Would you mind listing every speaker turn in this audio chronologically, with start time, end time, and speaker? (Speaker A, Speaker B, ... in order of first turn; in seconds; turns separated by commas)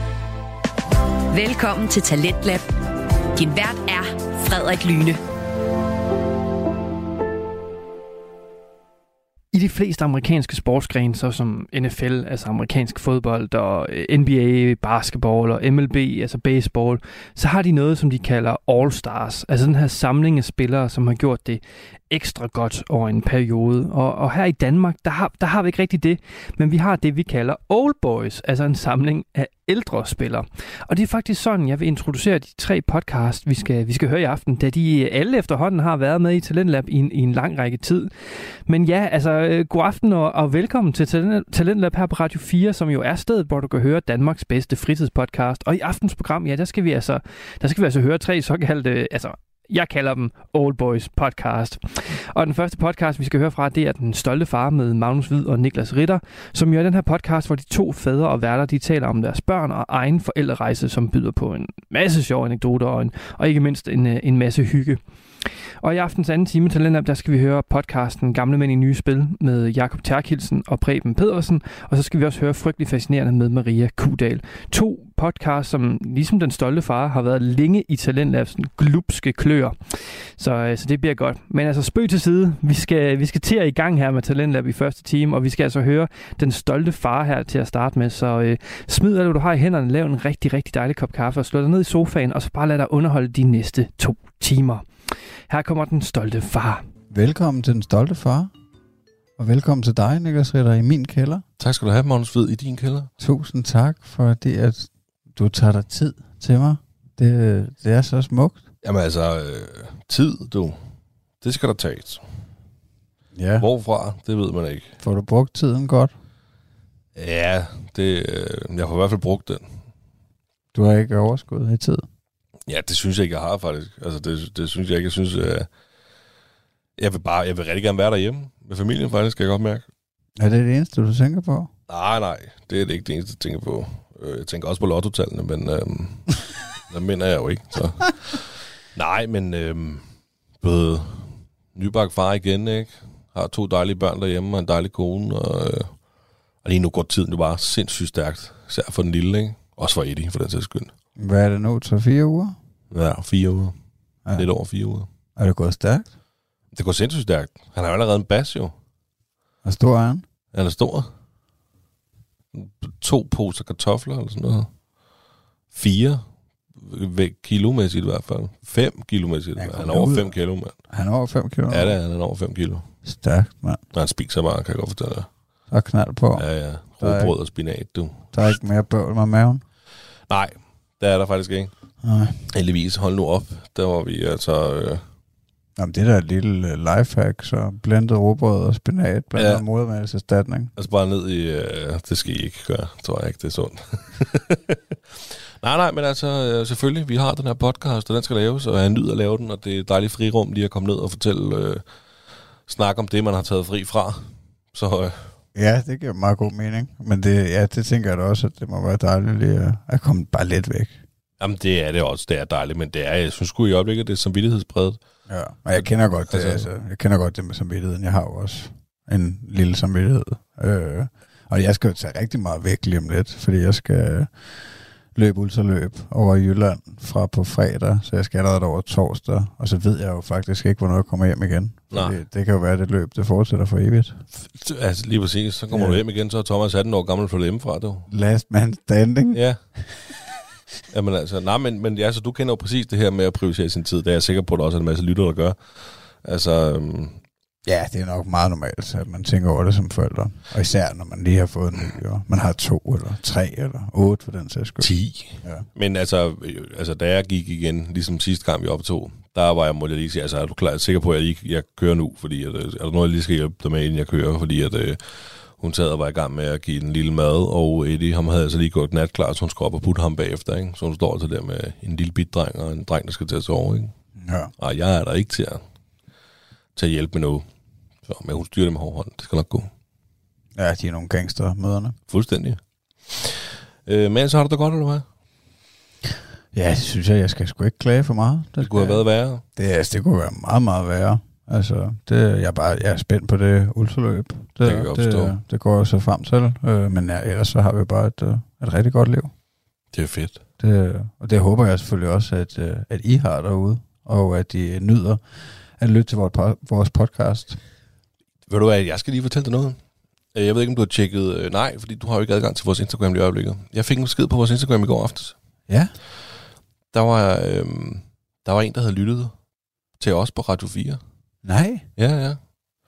Speaker A: 1.3-2.7, Speaker A: 3.3-5.2, Speaker B: 9.5-94.8, Speaker B: 95.5-96.8, Speaker C: 97.1-98.5, Speaker C: 99.4-101.4, Speaker D: 101.6-103.1, Speaker C: 103.2-108.6, Speaker D: 108.8-110.8, Speaker D: 111.4-112.2, Speaker C: 113.3-113.7, Speaker D: 113.6-114.9, Speaker C: 115.0-116.1, Speaker D: 117.2-119.6, Speaker C: 120.7-122.0, Speaker D: 122.7-125.7, Speaker D: 127.0-129.9, Speaker C: 130.4-131.7, Speaker D: 131.9-140.0, Speaker D: 140.6-146.0, Speaker D: 146.6-150.9, Speaker C: 151.2-152.6, Speaker D: 152.9-153.8, Speaker D: 154.3-155.1, Speaker C: 155.3-156.1, Speaker D: 156.7-158.7, Speaker C: 159.6-160.2, Speaker D: 160.5-161.1, Speaker D: 162.5-164.7, Speaker D: 165.7-166.2, Speaker D: 166.8-170.7, Speaker C: 169.6-171.9, Speaker D: 171.7-172.8, Speaker C: 173.0-173.8, Speaker D: 173.9-175.3, Speaker C: 175.7-177.3, Speaker D: 176.4-178.5, Speaker C: 178.3-179.6, Speaker D: 180.3-181.7, Speaker C: 182.0-182.5, Speaker D: 182.5-185.0, Speaker C: 185.8-190.7, Speaker D: 189.3-189.6, Speaker D: 190.8-201.8, Speaker D: 202.7-205.3, Speaker C: 205.5-211.0, Speaker D: 211.4-215.0, Speaker C: 215.3-234.2, Speaker D: 215.8-216.7, Speaker D: 231.9-232.2, Speaker D: 234.3-238.1, Speaker C: 235.7-236.0, Speaker C: 238.1-240.1, Speaker D: 239.3-239.6, Speaker D: 240.9-247.2, Speaker C: 247.7-255.7, Speaker D: 254.8-273.9, Speaker C: 274.2-274.5, Speaker D: 274.6-275.6, Speaker D: 276.8-277.5, Speaker D: 278.1-279.7, Speaker C: 280.5-282.0, Speaker D: 282.1-285.1, Speaker C: 286.5-299.3, Speaker D: 288.6-289.4, Speaker D: 294.6-295.4, Speaker D: 299.9-300.4, Speaker C: 300.6-307.6, Speaker D: 308.5-309.8, Speaker D: 310.3-315.4, Speaker C: 315.7-315.9, Speaker D: 316.9-319.3, Speaker D: 319.9-321.0, Speaker C: 321.4-321.9, Speaker D: 321.9-322.4